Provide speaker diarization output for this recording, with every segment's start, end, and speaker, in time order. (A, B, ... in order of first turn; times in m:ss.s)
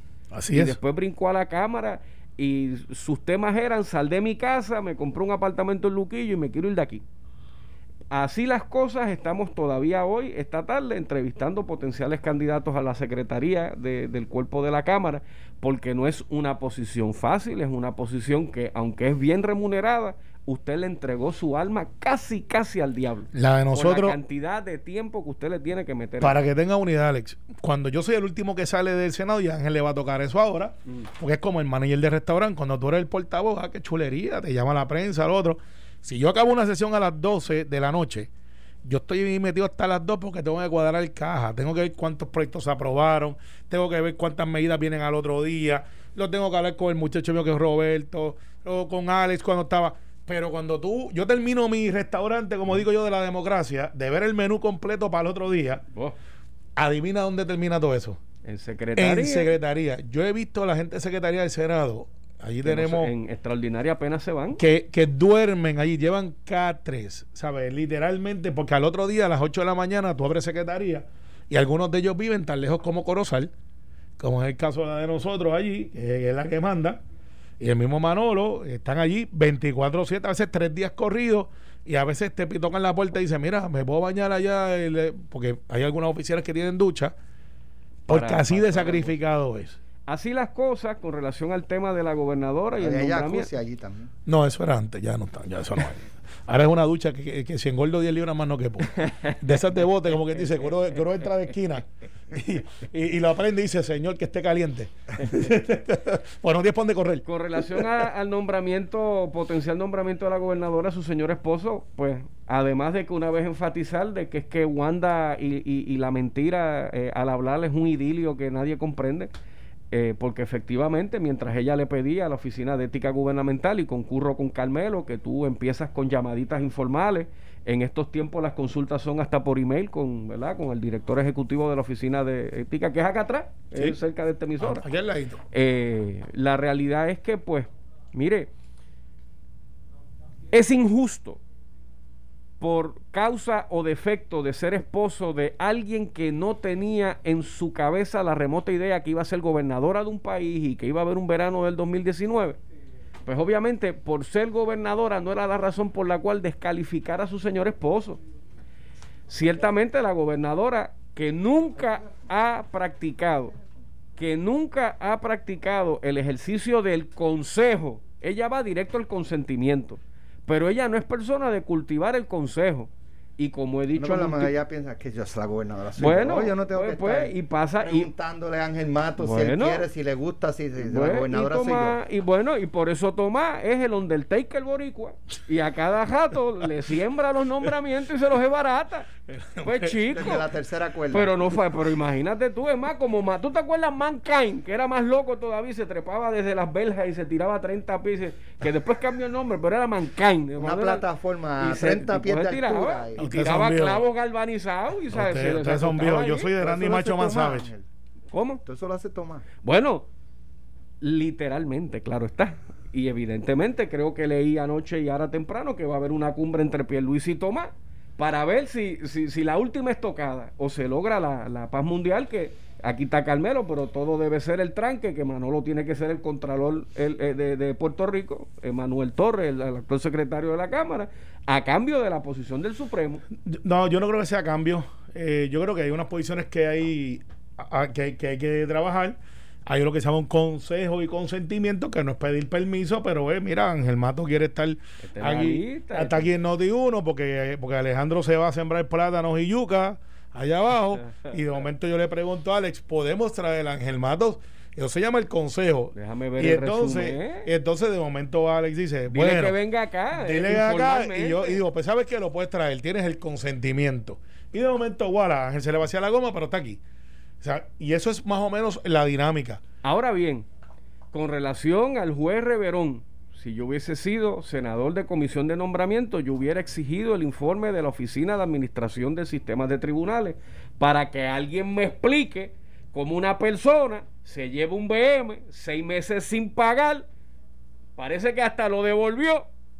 0:00.3-0:00.8 A
0:00.5-0:07.0 B
0:08.1-0:26.4 B
0:23.3-0:24.2 A
0:26.2-0:38.3 A
0:38.8-0:55.8 A
0:56.8-0:58.2 A
0:58.4-0:59.5 B
0:59.0-1:03.1 A
1:02.6-1:04.6 B
1:04.6-1:13.5 A
1:14.2-1:17.0 A
1:17.6-1:27.1 A
1:28.1-1:29.1 B
1:28.1-1:29.8 A
1:30.1-1:33.5 B
1:32.8-1:34.1 C
1:34.2-1:47.9 A
1:39.0-1:39.4 B
1:40.2-1:41.3 B
1:47.2-1:59.3 B
1:59.9-2:14.8 B
2:13.7-2:14.0 A
2:14.6-2:15.4 A
2:15.5-2:18.5 B
2:20.5-2:21.4 B
2:22.6-2:32.6 B
2:33.2-2:38.2 B
2:39.3-2:43.5 B
2:44.2-2:54.5 B
2:54.0-3:02.0 C
2:56.0-2:58.1 B
2:59.2-2:59.8 B
3:00.8-3:10.5 B
3:09.3-3:10.4 A
3:10.1-3:11.3 C
3:11.1-3:21.1 B
3:20.6-3:23.2 C
3:21.6-3:26.5 B
3:23.2-3:24.0 A
3:25.1-3:27.7 A
3:26.6-3:27.8 C
3:28.3-3:28.6 B
3:28.6-3:29.4 C
3:29.6-3:30.1 B
3:31.0-3:53.2 B
3:53.3-4:19.5 A
4:05.1-4:06.3 B
4:15.9-4:17.5 B
4:19.1-4:21.6 B
4:20.1-4:26.8 A
4:27.4-4:29.6 A
4:29.8-4:30.4 B
4:31.1-4:47.0 B
4:48.0-4:49.4 B